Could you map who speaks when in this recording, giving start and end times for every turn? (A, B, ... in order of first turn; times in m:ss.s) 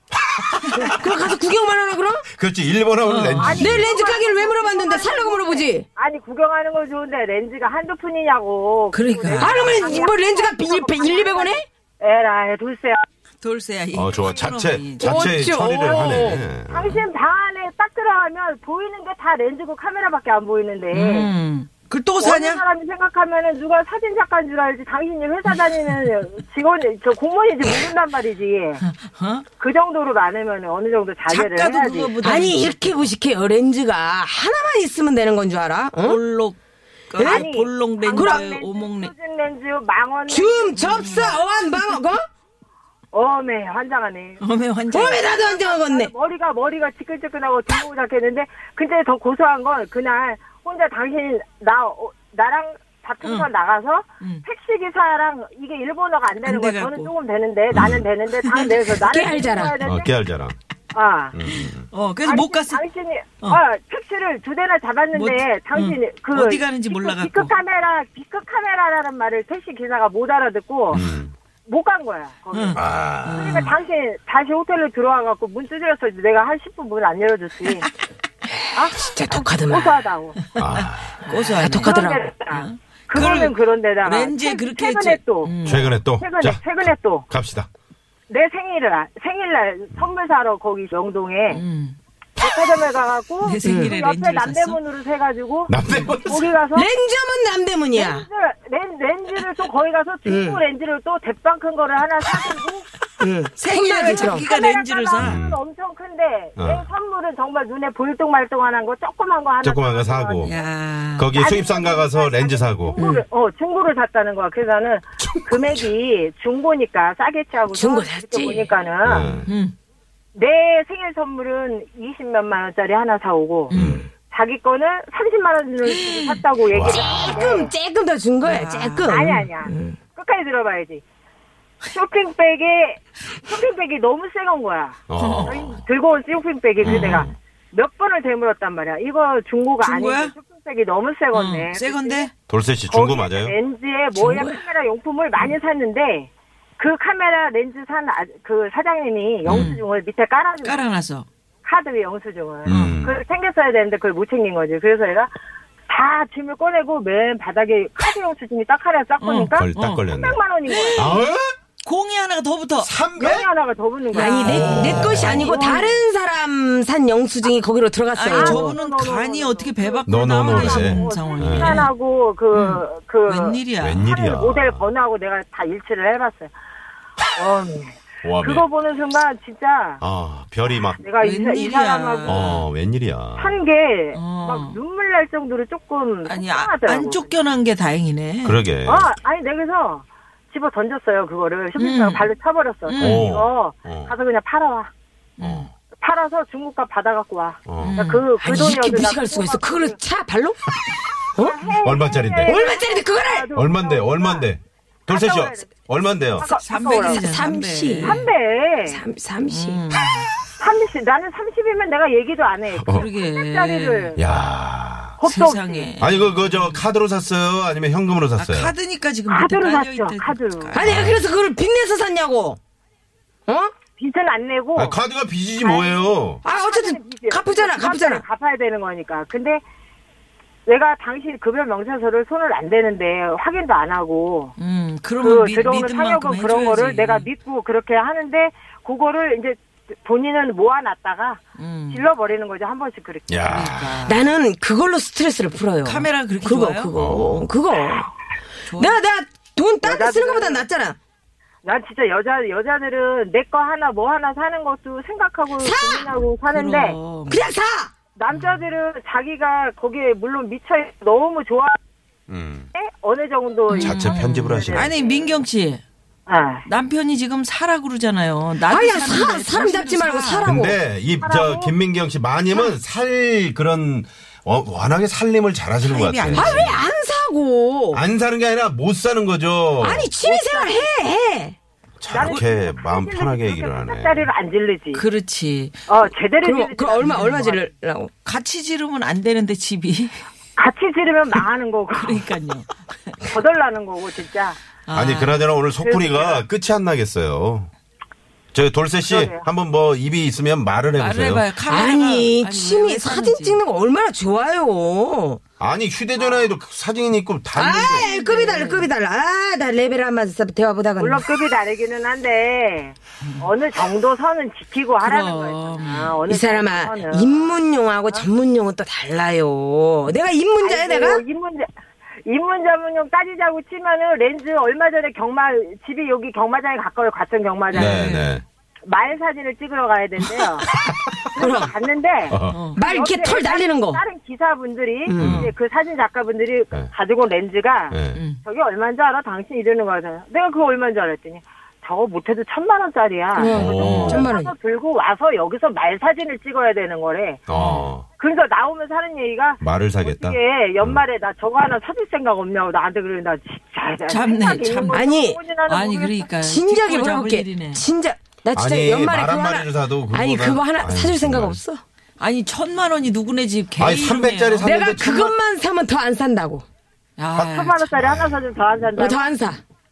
0:00.4-0:01.1 A
0:00.7-0:02.3 B
0:02.3-0:03.9 A
0:03.0-0:03.7 C
0:03.4-0:13.0 D
0:03.5-0:05.9 B
0:08.9-0:09.8 C
0:09.4-0:11.7 B
0:13.4-0:15.3 C
0:13.9-0:17.0 A
0:15.0-0:16.4 B
0:16.7-0:21.3 D
0:20.9-0:22.6 C
0:22.2-0:28.8 D
0:28.8-0:29.4 C
0:29.6-0:32.1 D
0:31.3-0:33.0 C
0:32.2-0:36.2 B
0:36.0-0:36.6 C
0:37.1-0:39.1 C
0:37.2-0:37.4 B
0:37.2-0:41.0 D
0:38.1-0:38.4 B
0:40.3-0:42.2 B
0:40.8-0:42.0 C
0:43.1-0:44.4 D
0:44.4-0:45.4 C
0:44.9-0:46.1 B
0:45.2-1:00.1 D
0:53.2-0:53.5 C
0:56.4-0:57.1 C
0:57.7-0:58.0 A
0:58.4-0:58.7 C
0:58.9-0:59.8 B
0:59.8-1:00.6 A
1:00.9-1:01.4 D
1:01.3-1:01.9 A
1:01.5-1:02.8 C
1:02.2-1:11.0 D
1:05.1-1:07.5 C
1:10.9-1:11.3 A
1:11.7-1:12.8 D
1:12.5-1:13.7 C
1:12.8-1:13.7 A
1:13.3-1:17.9 D
1:18.7-1:20.4 D
1:18.8-1:20.0 B
1:20.6-1:21.2 A
1:20.6-1:25.9 C
1:21.4-1:22.3 B
1:21.7-1:27.3 D
1:25.6-1:27.7 A
1:28.3-1:31.6 D
1:31.5-1:32.0 C
1:32.4-1:36.9 D
1:33.4-1:34.8 C
1:33.6-1:33.9 B
1:35.7-1:36.5 A
1:35.9-1:36.1 C
1:36.7-1:38.3 B
1:37.9-1:42.9 D
1:40.3-1:40.6 B
1:43.2-1:44.5 B
1:43.6-1:45.4 C
1:43.9-1:50.7 D
1:45.2-1:45.6 A
1:46.6-1:46.9 A
1:49.6-1:50.5 A
1:50.4-1:51.3 C
1:51.2-1:53.0 A
1:51.4-1:59.4 D
1:53.0-1:53.2 B
1:55.2-1:55.9 A
1:57.7-1:58.7 B
1:59.0-1:59.5 A
1:59.4-1:59.7 C
2:00.3-2:03.8 D
2:03.7-2:04.0 C
2:03.7-2:04.1 A
2:04.3-2:07.7 D
2:05.8-2:06.4 C
2:06.7-2:07.5 A
2:06.8-2:10.0 B
2:08.4-2:09.3 C
2:09.1-2:11.0 D
2:11.9-2:22.3 D
2:15.1-2:15.8 A
2:15.2-2:15.7 C
2:16.8-2:17.3 A
2:16.8-2:17.3 C
2:19.8-2:20.3 C
2:21.3-2:22.3 C
2:22.5-2:23.6 A
2:22.9-2:30.8 D
2:24.2-2:24.4 B
2:29.4-2:29.7 A
2:29.5-2:29.8 C
2:30.6-2:31.3 C
2:31.6-2:35.3 D
2:32.7-2:33.2 A
2:32.7-2:32.9 C
2:35.9-2:41.1 D
2:39.2-2:40.1 C
2:39.6-2:40.4 A
2:40.7-2:41.2 C
2:41.0-2:41.6 A
2:41.8-2:42.9 C
2:42.8-2:43.5 A
2:43.2-2:46.0 D
2:44.1-2:45.5 C
2:44.1-2:48.8 B
2:44.4-2:45.5 A
2:48.1-2:51.9 C
2:48.3-2:56.5 D
2:50.1-2:51.9 A
2:52.5-2:54.0 C
2:53.8-2:54.9 A
2:57.4-3:00.0 D
2:58.2-2:58.6 A
3:00.0-3:01.0 A
3:01.0-3:02.6 D
3:01.2-3:02.7 C
3:02.3-3:03.6 A
3:03.4-3:07.3 D
3:04.1-3:04.8 C
3:06.2-3:08.6 C
3:08.4-3:09.1 A
3:08.9-3:14.9 D
3:11.8-3:12.3 C
3:12.9-3:13.3 C
3:13.0-3:14.1 A
3:15.4-3:15.7 C
3:15.4-3:15.7 A
3:16.0-3:20.0 D
3:17.7-3:18.0 A
3:17.8-3:18.3 C
3:18.4-3:20.7 B
3:21.4-3:21.8 B
3:21.4-3:24.5 D
3:21.8-3:22.6 A
3:22.4-3:23.5 B
3:23.5-3:26.5 A
3:25.1-3:25.7 D
3:26.4-3:27.2 D
3:26.4-3:28.2 C
3:27.0-3:28.2 B
3:28.0-3:29.0 D
3:28.9-3:29.8 B
3:29.5-3:30.3 C
3:30.6-3:34.2 D
3:32.7-3:33.1 A
3:32.9-3:34.4 C
3:34.2-3:35.2 A
3:35.2-3:35.9 D
3:35.2-3:36.9 C
3:36.0-3:38.7 A
3:38.4-3:40.8 C
3:39.3-3:40.8 D
3:40.7-3:42.6 B
3:40.8-3:41.2 A
3:43.5-3:43.7 B
3:44.0-3:45.0 D
3:44.8-3:46.4 A
3:45.6-3:49.6 D
3:46.4-3:48.2 B
3:50.7-3:54.5 D
3:54.6-3:57.3 C
3:55.2-4:01.4 D
4:01.6-4:02.1 C
4:01.9-4:03.6 D
4:03.3-4:04.1 A
4:03.4-4:04.2 C
4:04.0-4:08.1 B
4:05.8-4:06.9 C
4:07.0-4:07.5 A
4:08.7-4:09.0 C
4:08.7-4:11.0 B
4:09.8-4:10.7 D
4:11.6-4:17.0 D
4:15.6-4:16.2 B
4:16.5-4:17.5 C
4:17.3-4:17.9 B
4:18.2-4:21.8 D
4:18.3-4:18.6 C
4:22.3-4:22.7 A
4:22.8-4:25.4 D
4:23.7-4:25.8 C
4:23.8-4:24.9 A
4:26.3-4:26.7 D
4:26.7-4:30.5 C
4:28.6-4:30.8 B
4:30.4-4:36.8 A
4:31.2-4:31.7 D
4:35.8-4:36.8 C
4:36.3-4:38.0 B
4:37.9-4:40.1 A
4:39.8-4:41.6 B
4:40.1-4:40.9 D
4:42.0-4:44.3 A
4:42.1-4:45.0 D
4:44.9-4:45.8 C
4:45.9-4:47.6 D
4:46.4-4:48.1 B
4:47.0-4:47.5 C
4:48.2-4:50.2 C
4:50.6-4:52.2 D
4:51.9-4:53.3 C
4:53.3-4:54.6 D
4:54.9-4:55.5 C
4:54.9-4:57.7 A
4:55.8-4:56.4 D
4:58.5-5:01.5 A
4:59.1-4:59.4 D
5:00.9-5:03.6 C
5:01.6-5:05.4 B
5:05.6-5:08.0 A
5:06.2-5:06.5 D
5:07.5-5:11.2 B
5:08.0-5:08.9 C
5:11.0-5:17.6 D
5:15.0-5:16.2 C
5:16.3-5:21.2 B
5:20.6-5:21.7 D
5:22.3-5:28.1 D
5:27.7-5:28.4 C
5:27.7-5:28.4 A
5:28.9-5:30.7 D
5:31.3-5:47.4 D
5:31.4-5:31.7 B
5:32.3-5:32.6 A
5:32.5-5:32.8 C
5:32.8-5:34.0 B
5:35.1-5:35.4 B
5:35.2-5:35.5 C
5:35.2-5:35.5 A
5:37.9-5:38.2 A
5:38.1-5:38.4 C
5:43.4-5:44.5 B
5:43.5-5:44.3 A
5:43.7-5:44.3 C
5:47.5-5:48.1 A
5:47.5-5:47.9 C
5:48.2-5:56.3 D
5:49.6-5:51.0 A
5:54.1-5:55.1 C
5:54.9-5:55.4 B
5:55.7-5:57.8 C
5:56.4-6:01.8 B
5:58.5-6:01.6 A
6:02.2-6:05.1 C
6:03.8-6:05.3 A
6:04.6-6:06.6 B
6:07.2-6:07.9 C
6:07.4-6:09.4 D
6:07.9-6:08.6 A
6:09.0-6:09.6 B